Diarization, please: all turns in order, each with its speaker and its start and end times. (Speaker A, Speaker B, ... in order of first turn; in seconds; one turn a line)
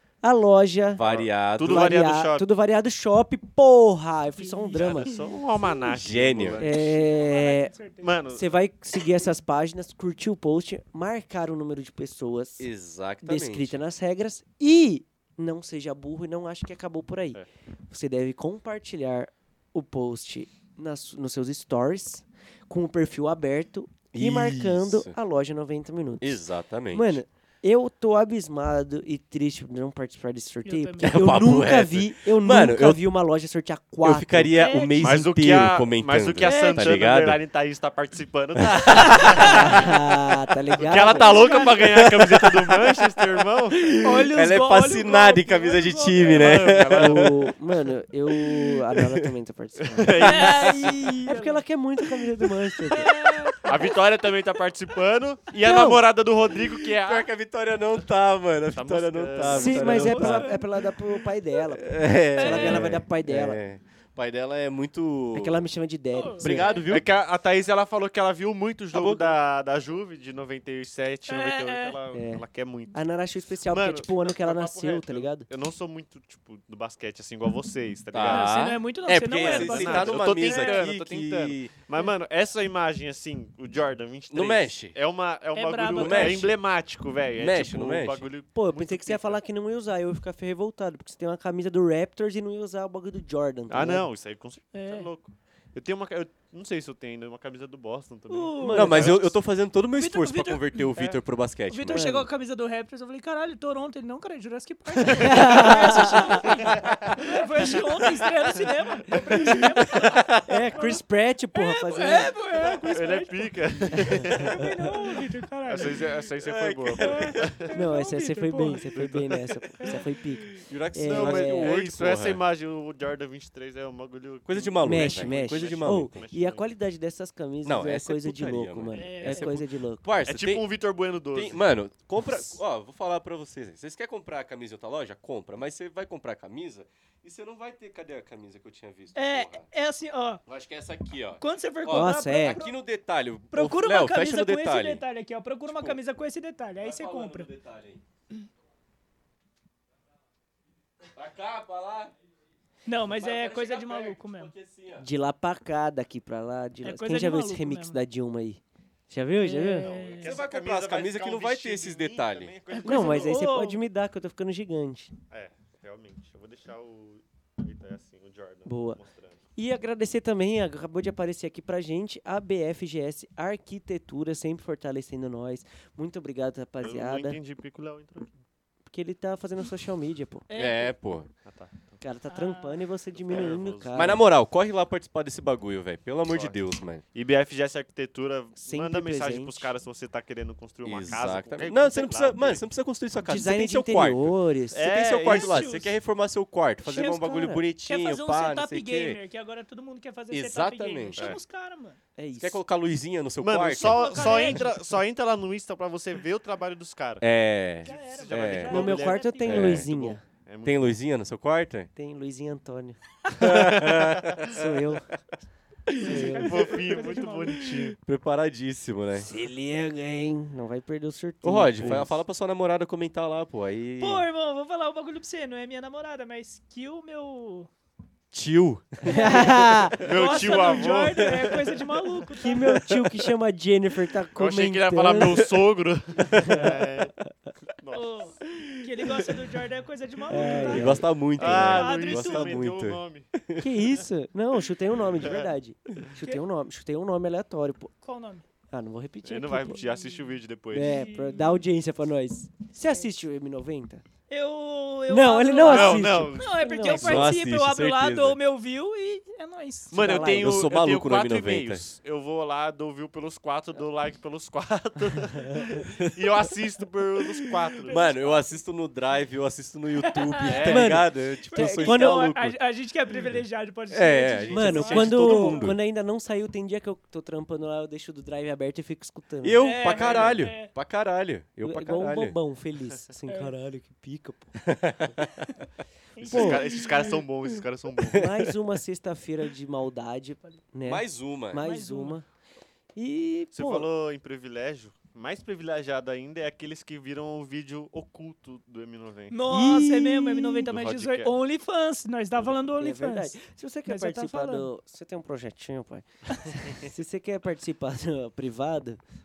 Speaker A: 0.2-1.1
Speaker B: 0.9-2.0
Speaker C: 1.0-2.5
Speaker A: 1.6-5.1
Speaker D: 4.3-5.4
Speaker C: 4.7-6.9
Speaker B: 5.7-6.7
Speaker A: 6.6-7.7
Speaker D: 6.8-8.2
Speaker C: 8.0-8.5
Speaker A: 8.3-12.7
Speaker B: 12.6-13.8
Speaker A: 13.2-34.6
Speaker B: 24.1-25.1
Speaker B: 26.2-27.2
Speaker D: 30.6-31.2
Speaker B: 31.0-33.1
Speaker B: 34.0-37.4
Speaker D: 34.5-35.1
Speaker C: 35.0-40.0
Speaker D: 36.4-36.9
Speaker B: 38.6-39.9
Speaker D: 38.8-39.7
Speaker A: 39.4-41.8
Speaker C: 40.8-43.9
Speaker D: 41.2-41.8
Speaker B: 41.7-43.2
Speaker B: 43.7-47.5
Speaker D: 44.0-46.7
Speaker C: 46.3-47.5
Speaker A: 46.9-53.2
Speaker B: 48.3-49.3
Speaker C: 49.8-50.8
Speaker D: 50.2-51.6
Speaker B: 50.4-50.9
Speaker B: 52.6-53.0
Speaker D: 52.9-53.7
Speaker C: 53.6-57.3
Speaker B: 55.6-56.0
Speaker B: 56.9-60.6
Speaker C: 58.7-60.1
Speaker A: 59.4-63.6
Speaker D: 59.8-60.6
Speaker B: 61.8-65.7
Speaker D: 62.4-62.9
Speaker A: 65.3-66.8
Speaker D: 66.1-66.8
Speaker B: 66.4-67.1
Speaker C: 66.8-73.0
Speaker A: 69.0-69.3
Speaker D: 71.3-72.0
Speaker A: 72.1-75.5
Speaker C: 73.6-78.6
Speaker B: 78.1-81.7
Speaker D: 78.2-80.8
Speaker C: 79.3-89.5
Speaker B: 84.3-85.0
Speaker D: 85.5-86.5
Speaker B: 86.0-86.6
Speaker B: 87.4-88.3
Speaker A: 88.5-94.1
Speaker C: 93.7-99.3
Speaker D: 94.7-95.1
Speaker D: 98.3-98.9
Speaker A: 98.6-99.3
Speaker B: 98.7-102.1
Speaker D: 100.0-100.9
Speaker D: 101.7-111.0
Speaker A: 101.9-102.3
Speaker C: 105.1-105.7
Speaker A: 105.2-106.5
Speaker C: 106.7-107.2
Speaker B: 106.8-107.2
Speaker B: 107.8-108.6
Speaker B: 109.3-110.6
Speaker A: 110.5-112.3
Speaker D: 111.5-113.5
Speaker C: 112.8-114.8
Speaker D: 114.1-116.0
Speaker C: 115.7-117.7
Speaker B: 116.4-117.6
Speaker D: 117.0-118.9
Speaker A: 117.7-121.7
Speaker B: 119.0-119.7
Speaker B: 120.5-122.4
Speaker C: 121.0-126.7
Speaker B: 124.5-126.2
Speaker A: 124.8-130.0
Speaker B: 127.6-130.7
Speaker D: 128.9-129.5
Speaker C: 130.2-131.6
Speaker B: 131.3-139.7
Speaker D: 139.2-140.4
Speaker B: 140.5-145.0
Speaker D: 141.4-142.8
Speaker A: 141.9-142.6
Speaker D: 143.5-147.5
Speaker B: 145.7-146.0
Speaker B: 146.8-148.0
Speaker B: 151.1-152.1
Speaker D: 152.9-154.5
Speaker B: 153.2-155.1
Speaker A: 155.0-160.0
Speaker D: 156.8-158.0
Speaker D: 159.4-160.4
Speaker C: 159.8-163.4
Speaker B: 160.2-162.7
Speaker D: 162.8-163.8
Speaker A: 162.8-165.2
Speaker C: 165.3-169.4
Speaker A: 168.7-169.0
Speaker A: 169.6-177.4
Speaker C: 176.8-178.4
Speaker A: 178.9-180.5
Speaker D: 180.5-180.9
Speaker B: 180.6-181.3
Speaker C: 181.4-182.0
Speaker A: 182.0-184.2
Speaker D: 182.3-182.8
Speaker C: 183.1-184.2
Speaker B: 183.9-187.0
Speaker C: 186.3-186.6
Speaker C: 187.1-192.7
Speaker A: 188.6-189.7
Speaker B: 190.8-199.2
Speaker A: 193.2-194.9
Speaker C: 194.7-195.8
Speaker D: 195.3-195.9
Speaker A: 196.9-197.6
Speaker D: 197.0-197.2
Speaker D: 197.8-202.0
Speaker B: 200.3-201.3
Speaker A: 202.2-202.6
Speaker B: 202.4-204.6
Speaker C: 203.4-207.2
Speaker D: 203.8-204.7
Speaker B: 207.2-208.9
Speaker C: 207.8-210.9
Speaker D: 207.9-209.7
Speaker A: 208.7-210.2
Speaker B: 209.5-209.9
Speaker B: 210.7-211.9
Speaker A: 212.0-213.0
Speaker B: 213.3-214.7
Speaker C: 213.4-214.6
Speaker A: 214.4-215.1
Speaker B: 215.9-216.3
Speaker A: 215.9-217.1
Speaker D: 216.0-217.7
Speaker C: 216.3-218.0
Speaker B: 217.6-219.3
Speaker A: 219.2-222.2
Speaker B: 221.4-224.3
Speaker D: 224.0-227.7
Speaker B: 228.3-229.9
Speaker A: 229.1-230.1
Speaker D: 229.1-232.8
Speaker C: 230.0-231.5
Speaker B: 231.2-231.6
Speaker A: 232.3-235.5
Speaker B: 232.7-233.1
Speaker C: 234.3-237.1
Speaker A: 236.3-237.3
Speaker B: 236.3-236.6
Speaker C: 237.7-238.3
Speaker D: 237.9-242.6
Speaker B: 238.5-239.3
Speaker A: 240.3-241.1
Speaker B: 240.4-243.7
Speaker C: 241.4-243.3
Speaker A: 243.6-247.9
Speaker C: 245.2-245.5
Speaker D: 248.0-248.4
Speaker A: 248.7-249.8
Speaker C: 249.2-250.9
Speaker D: 249.7-251.6
Speaker A: 250.7-254.0
Speaker D: 254.3-260.0
Speaker A: 255.1-257.3
Speaker C: 255.6-256.6
Speaker B: 256.9-258.4
Speaker C: 259.9-268.2
Speaker A: 259.9-260.6
Speaker B: 260.0-261.8
Speaker B: 265.9-266.2
Speaker B: 267.8-272.6
Speaker D: 267.9-268.2
Speaker D: 270.0-275.7
Speaker C: 270.5-271.0
Speaker A: 270.7-272.3
Speaker B: 273.9-275.8
Speaker A: 274.5-279.8
Speaker B: 279.4-282.4
Speaker D: 279.6-280.7
Speaker C: 280.0-280.3
Speaker A: 281.6-284.7
Speaker D: 283.3-283.5
Speaker B: 284.6-285.5
Speaker D: 286.2-287.1
Speaker C: 286.2-288.4
Speaker A: 286.3-286.9
Speaker B: 288.1-288.4
Speaker A: 288.1-292.3
Speaker B: 290.9-291.6
Speaker D: 291.6-292.2
Speaker A: 292.9-293.9
Speaker C: 293.5-299.4
Speaker D: 299.3-304.7
Speaker A: 299.5-300.7
Speaker C: 300.7-301.3
Speaker A: 302.4-309.0